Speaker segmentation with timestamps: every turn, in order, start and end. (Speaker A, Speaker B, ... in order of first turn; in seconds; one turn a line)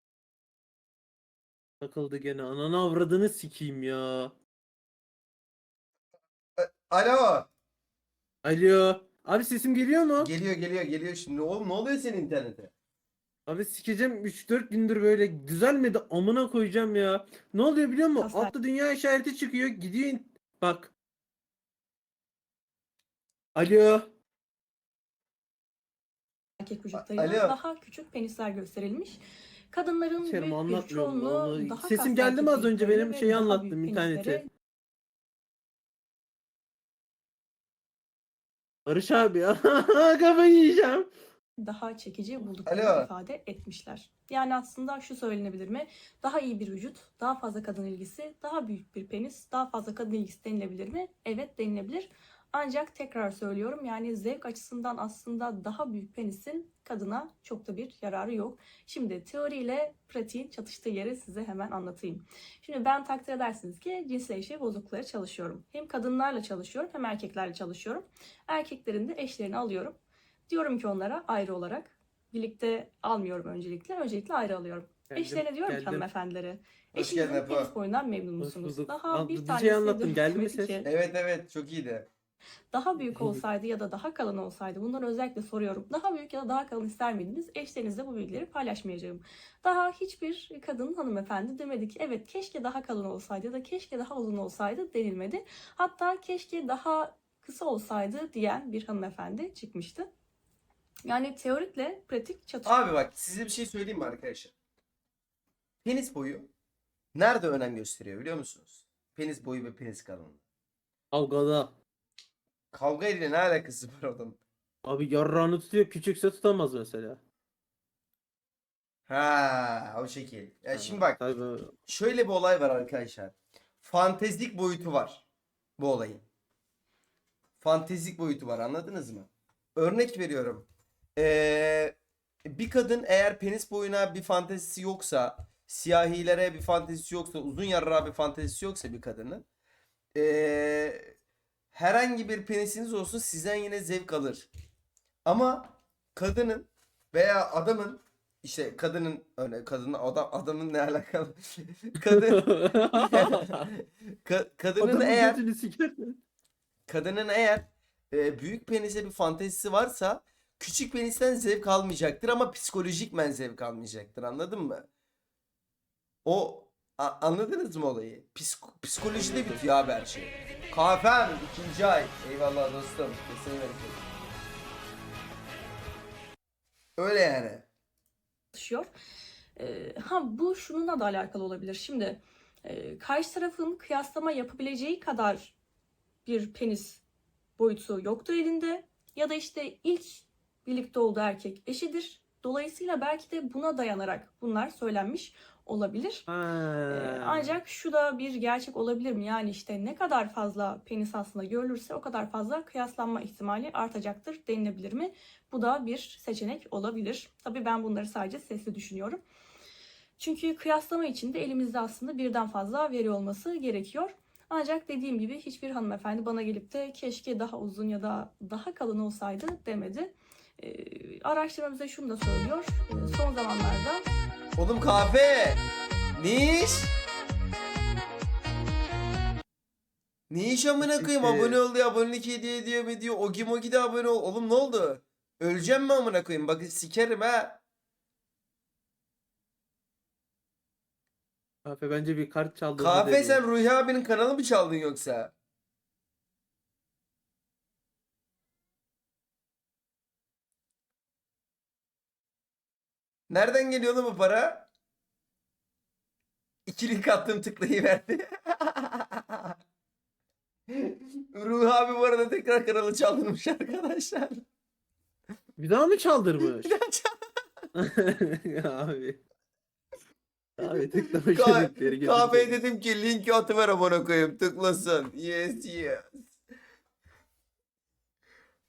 Speaker A: 1.8-4.3
Speaker B: 6.6-7.5
Speaker A: 8.4-10.3
Speaker B: 10.2-12.7
Speaker A: 13.5-20.9
Speaker C: 18.2-18.6
Speaker A: 23.6-24.1
Speaker C: 26.6-29.2
Speaker B: 26.9-27.6
Speaker C: 29.7-34.5
Speaker A: 30.2-34.5
Speaker A: 38.9-41.1
Speaker C: 41.6-70.0
Speaker B: 42.7-43.1
Speaker C: 70.5-80.9
Speaker A: 75.1-76.1
Speaker B: 76.9-77.7
Speaker A: 78.4-80.8
Speaker B: 80.8-82.1
Speaker C: 82.7-100.1
Speaker A: 83.0-83.4
Speaker C: 101.1-102.8
Speaker B: 102.7-104.5
Speaker B: 105.8-106.5
Speaker B: 107.2-110.4
Speaker A: 111.1-111.8
Speaker B: 112.7-114.4
Speaker A: 114.8-117.2
Speaker B: 119.1-121.2
Speaker A: 120.7-121.7
Speaker B: 121.9-125.2
Speaker B: 125.8-126.2
Speaker B: 127.6-131.9
Speaker B: 132.5-139.4
Speaker B: 140.2-141.2
Speaker B: 141.7-144.5
Speaker B: 145.3-155.4
Speaker A: 152.0-153.7
Speaker A: 154.8-156.2
Speaker B: 156.9-164.9
Speaker B: 166.2-174.0
Speaker A: 169.1-169.6
Speaker B: 177.0-177.7
Speaker C: 178.5-178.9
Speaker C: 179.6-185.6
Speaker C: 186.2-187.0
Speaker C: 187.6-196.3
Speaker A: 196.3-197.6
Speaker C: 196.9-209.2
Speaker C: 210.2-224.1
Speaker B: 224.6-225.6
Speaker B: 226.2-226.9
Speaker B: 230.3-237.6
Speaker A: 230.8-231.6
Speaker A: 241.7-243.4
Speaker B: 242.8-245.3
Speaker B: 253.3-254.7
Speaker B: 256.7-259.5
Speaker B: 260.7-264.4
Speaker A: 265.6-266.8
Speaker B: 266.4-267.1
Speaker A: 267.8-269.2
Speaker A: 270.6-272.6
Speaker B: 270.6-276.3